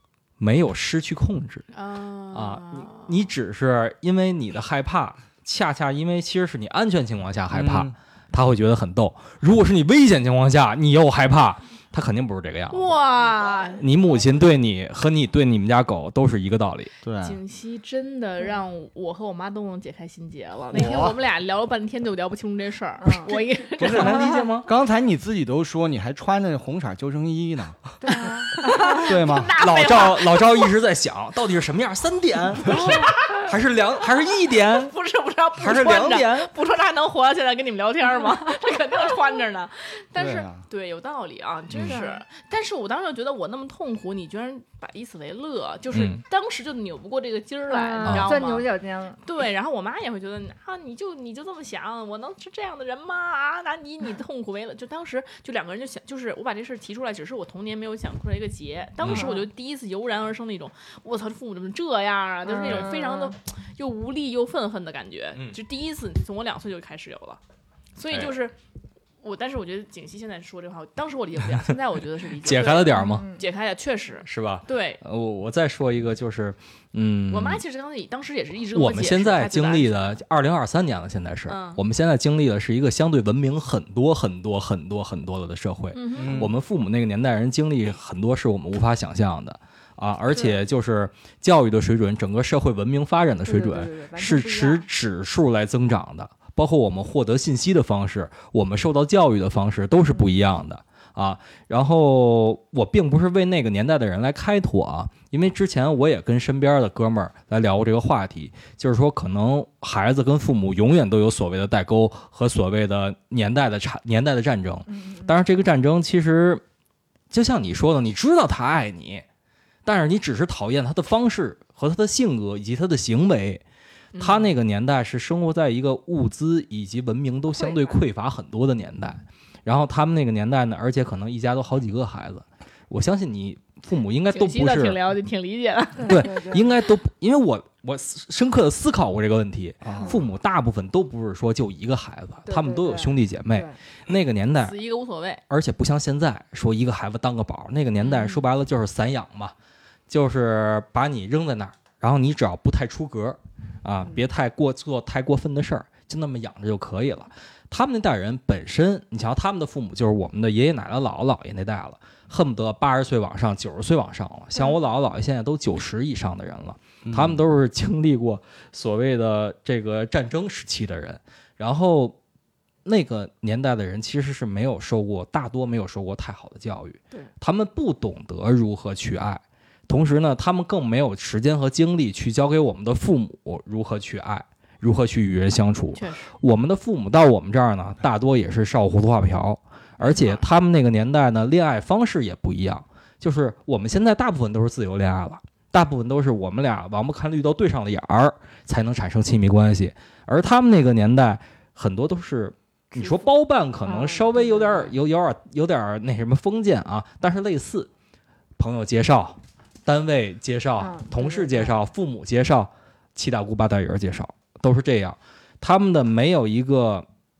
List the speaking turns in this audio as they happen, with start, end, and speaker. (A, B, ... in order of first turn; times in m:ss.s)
0:00.4-0:01.7 A
0:01.7-0:03.2 B
0:02.3-0:12.9 A
0:07.5-0:07.9 C
0:12.7-0:13.9 B
0:13.5-0:13.7 D
0:13.8-0:16.9 A
0:17.0-0:17.4 C
0:17.2-0:24.4 B
0:20.7-0:21.2 C
0:23.0-0:23.3 D
0:23.8-0:24.7 A
0:23.8-0:27.8 C
0:28.0-0:29.2 D
0:28.2-0:30.7 B
0:29.0-0:29.5 C
0:29.6-0:34.9 A
0:32.6-0:33.5 B
0:34.8-0:48.7 B
0:35.6-0:36.5 A
0:40.1-0:40.6 C
0:41.7-0:42.0 A
0:41.9-0:42.2 D
0:45.9-0:46.2 A
0:47.7-0:49.2 D
0:48.0-0:48.3 A
0:49.2-1:07.4 B
0:59.0-0:59.3 A
0:59.1-0:59.4 D
1:02.4-1:03.3 D
1:02.6-1:02.9 A
1:08.0-1:08.6 B
1:09.2-1:15.0 B
1:12.4-1:13.3 A
1:12.9-1:13.4 D
1:14.2-1:17.6 A
1:17.3-1:20.2 B
1:18.7-1:56.6 A
1:21.5-1:21.8 B
1:25.9-1:26.5 B
1:26.2-1:26.5 C
1:30.3-1:30.6 D
1:33.4-1:34.8 D
1:54.9-1:55.3 D
1:57.3-1:59.2 A
1:59.8-2:03.6 A
2:04.1-2:04.5 B
2:04.2-2:15.0 A
2:07.6-2:08.0 D
2:14.3-2:16.4 B
2:16.0-2:16.7 D
2:16.0-2:24.8 A
2:19.8-2:20.2 C
2:22.5-2:23.7 D
2:24.6-2:25.4 B
2:25.5-2:29.5 A
2:28.0-2:28.3 D
2:30.1-2:52.2 A
2:47.0-2:47.4 C
2:52.8-3:27.9 A
3:05.9-3:06.3 B
3:10.0-3:10.4 B
3:23.8-3:24.9 D
3:28.6-3:37.0 A
3:30.8-3:31.8 D